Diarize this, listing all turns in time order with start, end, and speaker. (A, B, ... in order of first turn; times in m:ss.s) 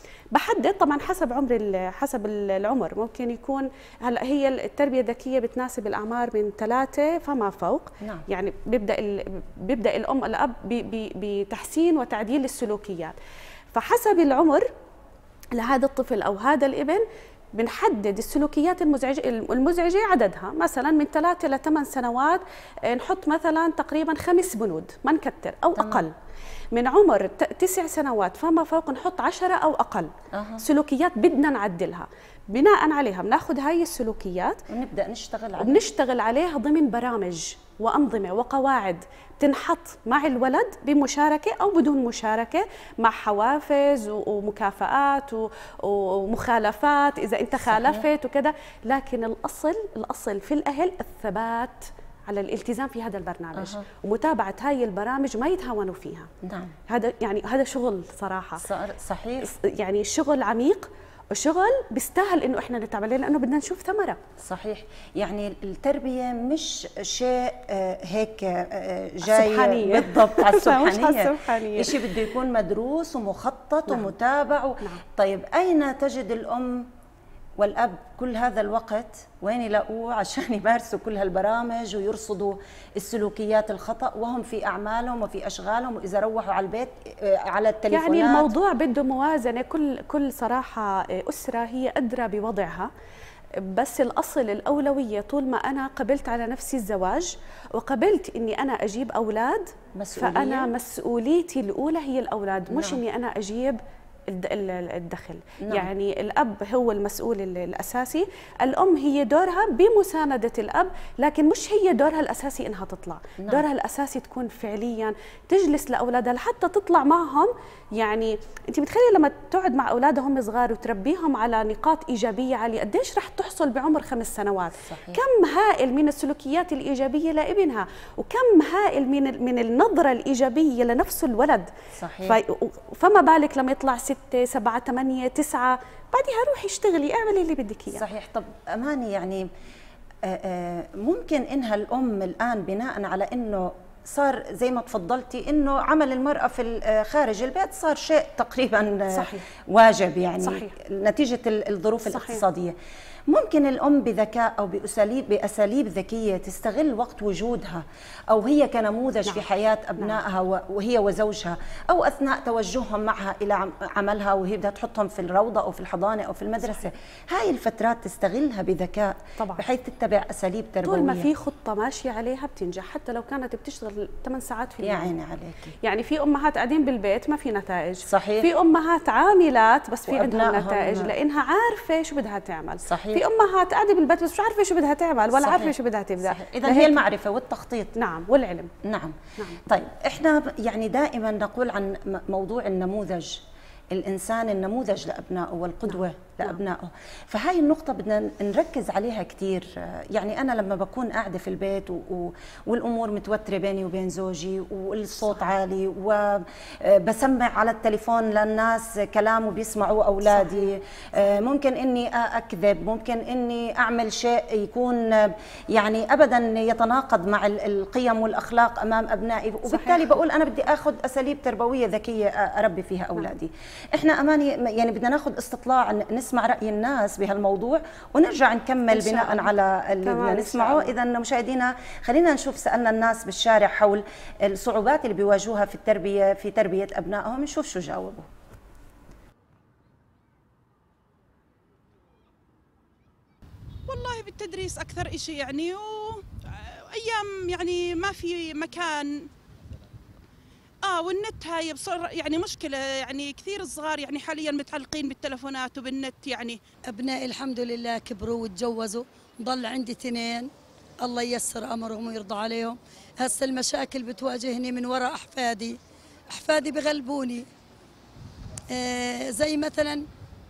0:00.3-0:13.1 A
0:13.7-0:14.7 A
0:15.5-0:17.0 A
0:17.5-0:26.1 A
0:25.8-0:26.0 B
0:26.7-0:34.6 A
0:30.3-0:30.6 B
0:34.7-0:35.8 B
0:35.6-0:56.3 A
0:47.6-0:48.0 B
0:53.5-0:53.8 B
0:56.4-0:56.7 B
0:56.9-0:58.7 A
0:58.6-0:59.5 B
0:59.4-1:04.2 A
1:04.4-1:16.9 B
1:09.2-1:12.1 A
1:17.6-1:28.5 B
1:27.9-1:32.9 A
1:33.6-2:11.7 A
1:40.0-1:40.7 B
1:42.7-1:43.0 B
1:45.6-1:45.9 B
1:53.4-1:53.6 B
2:04.9-2:05.2 B
2:12.0-2:12.4 B
2:12.2-2:18.0 A
2:17.9-2:19.5 B
2:20.2-2:32.8 B
2:29.1-2:29.4 A
2:30.4-2:30.8 A
2:32.0-2:32.4 A
2:33.3-2:51.3 B
2:49.4-2:49.6 A
2:50.8-2:55.1 A
2:54.8-2:55.7 B
2:55.8-3:07.0 A
2:58.0-2:58.5 B
3:00.0-3:01.1 B
3:02.8-3:03.2 B
3:05.3-3:07.9 B
3:08.0-3:08.7 A
3:08.8-3:58.3 B
3:15.9-3:16.6 A
3:30.3-3:30.7 A
3:39.6-3:40.1 A
3:48.9-3:50.9 A
4:03.9-4:09.3 C
4:10.8-4:16.6 C
4:16.9-4:20.5 D
4:21.0-4:25.8 D
4:26.3-4:27.4 D
4:28.7-4:30.0 D